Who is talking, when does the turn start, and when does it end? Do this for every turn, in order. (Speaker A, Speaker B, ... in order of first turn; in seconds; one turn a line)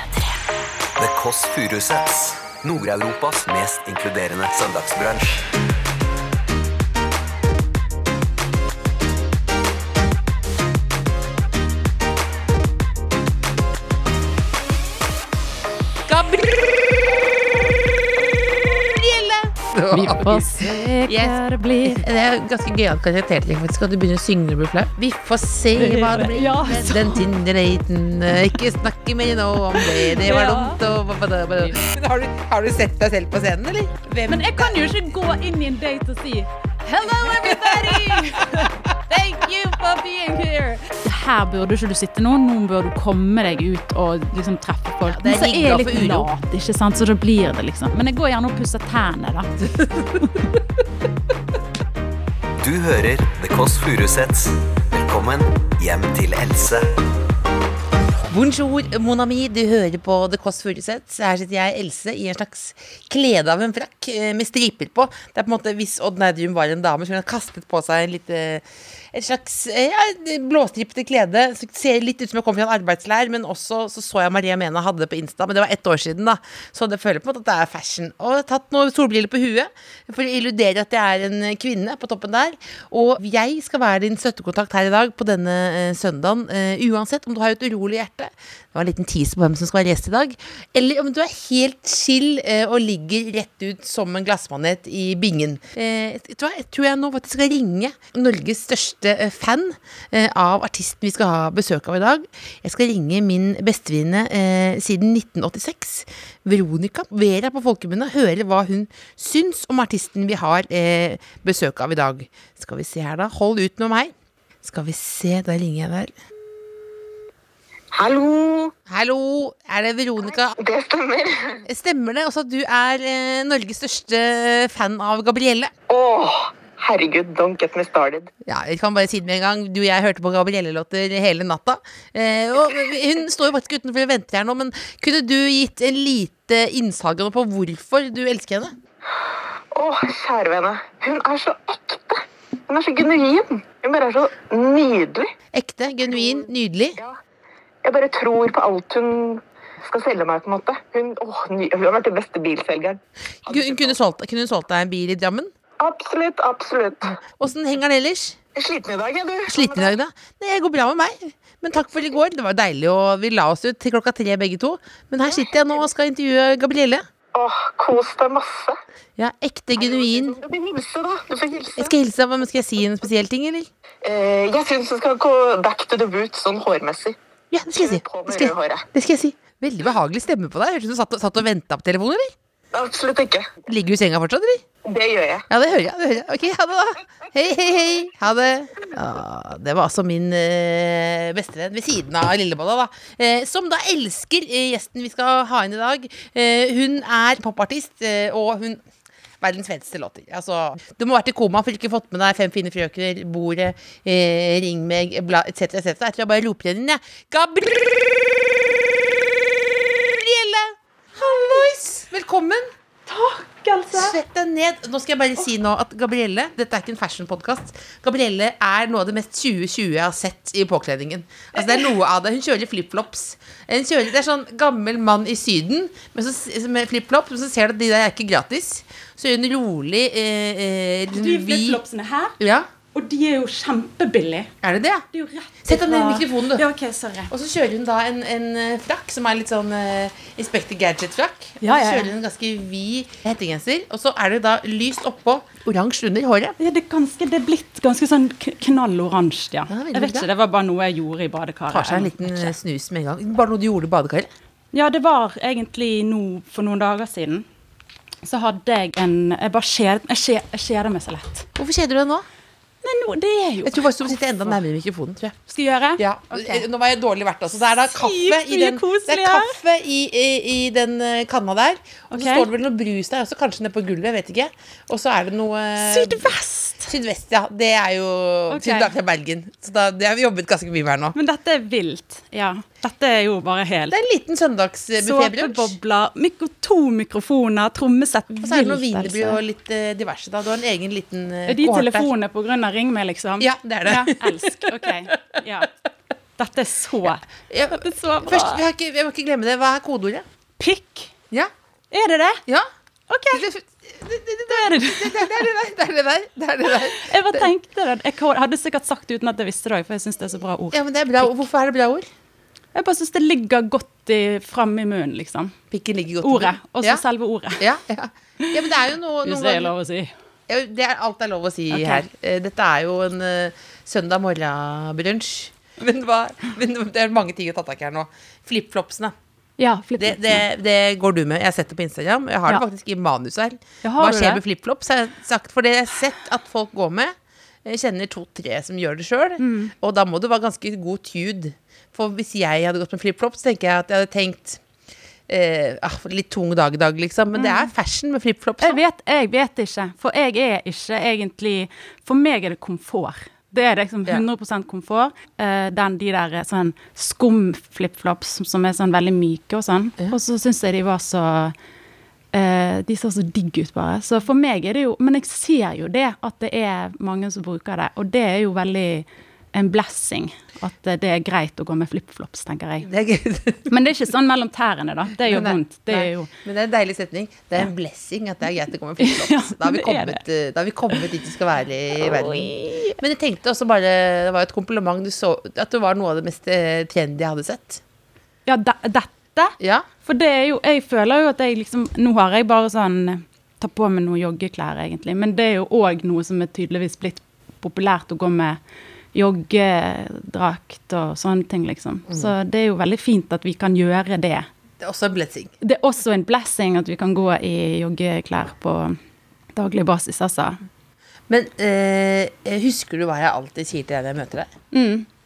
Speaker A: 1.0-5.4
Speaker B: 16.1-17.1
Speaker B: 18.8-35.1
Speaker C: 19.9-22.1
Speaker C: 25.8-27.3
Speaker C: 29.8-30.8
Speaker C: 34.3-49.5
Speaker B: 37.2-38.7
Speaker B: 45.0-46.3
Speaker B: 49.6-50.5
Speaker A: 52.6-56.9
Speaker B: 58.3-114.1
Speaker B: 114.6-116.1
Speaker D: 117.9-118.7
Speaker B: 118.9-120.5
Speaker D: 120.6-121.6
Speaker B: 121.7-125.7
Speaker D: 125.9-128.3
Speaker B: 128.4-138.7
Speaker D: 139.7-145.3
Speaker B: 145.5-147.0
Speaker D: 146.0-147.2
Speaker D: 147.8-154.0
Speaker B: 153.5-155.5
Speaker D: 155.8-157.2
Speaker B: 157.2-158.4
Speaker D: 158.6-159.9
Speaker B: 159.5-167.0
Speaker D: 165.3-165.8
Speaker D: 167.3-168.8
Speaker B: 169.2-170.4
Speaker D: 169.8-171.9
Speaker B: 171.8-173.7
Speaker D: 174.0-177.2
Speaker B: 177.5-182.3
Speaker D: 177.7-178.8
Speaker D: 182.7-183.5
Speaker B: 183.7-184.6
Speaker D: 184.9-185.5
Speaker B: 185.5-198.8
Speaker B: 199.4-208.4
Speaker B: 209.9-212.7
Speaker C: 211.2-211.8
Speaker C: 213.1-214.2
Speaker B: 213.9-231.8
Speaker C: 221.6-221.9
Speaker C: 231.1-232.3
Speaker B: 232.4-232.7
Speaker C: 232.9-234.5
Speaker B: 234.6-235.0
Speaker C: 235.1-237.3
Speaker B: 235.7-236.7
Speaker B: 237.3-246.6
Speaker C: 241.6-242.1
Speaker C: 246.6-252.5
Speaker B: 249.7-250.3
Speaker B: 251.7-254.3
Speaker C: 254.7-257.4
Speaker C: 258.2-261.5
Speaker B: 261.6-262.2
Speaker C: 262.8-264.6
Speaker B: 263.6-265.4
Speaker C: 265.5-266.6
Speaker B: 266.0-276.3
Speaker C: 267.7-269.6
Speaker C: 272.1-272.5
Speaker C: 275.8-276.9
Speaker B: 276.9-281.2
Speaker C: 278.5-278.9
Speaker C: 281.1-283.9
Speaker B: 283.9-285.8
Speaker C: 285.0-289.4
Speaker B: 288.4-292.1
Speaker C: 291.5-295.7
Speaker B: 293.4-295.2
Speaker C: 296.4-298.6
Speaker B: 297.5-300.2
Speaker C: 300.6-301.1
Speaker C: 301.9-302.4
Speaker C: 303.1-303.5
Speaker B: 303.3-307.5
Speaker C: 304.5-305.3
Speaker C: 306.9-311.4
Speaker B: 310.7-312.1
Speaker C: 312.7-315.6
Speaker B: 315.7-317.0
Speaker C: 316.2-317.6
Speaker B: 317.6-319.7
Speaker C: 319.2-320.1
Speaker B: 320.5-329.1
Speaker C: 321.7-322.0
Speaker C: 329.6-330.4
Speaker B: 330.0-344.6
Speaker C: 333.8-334.4
Speaker C: 339.4-339.7
Speaker B: 345.3-348.8
Speaker C: 347.4-347.7
Speaker C: 348.6-361.6
Speaker C: 362.3-372.9
Speaker B: 372.8-373.7
Speaker C: 373.7-376.3
Speaker B: 375.2-387.8
Speaker C: 379.0-380.2
Speaker C: 382.0-382.9
Speaker C: 388.4-398.6
Speaker B: 389.6-389.9
Speaker C: 399.1-404.5
Speaker B: 404.8-405.5
Speaker C: 405.6-409.0
Speaker C: 409.6-410.6
Speaker B: 411.3-414.5
Speaker C: 414.7-415.1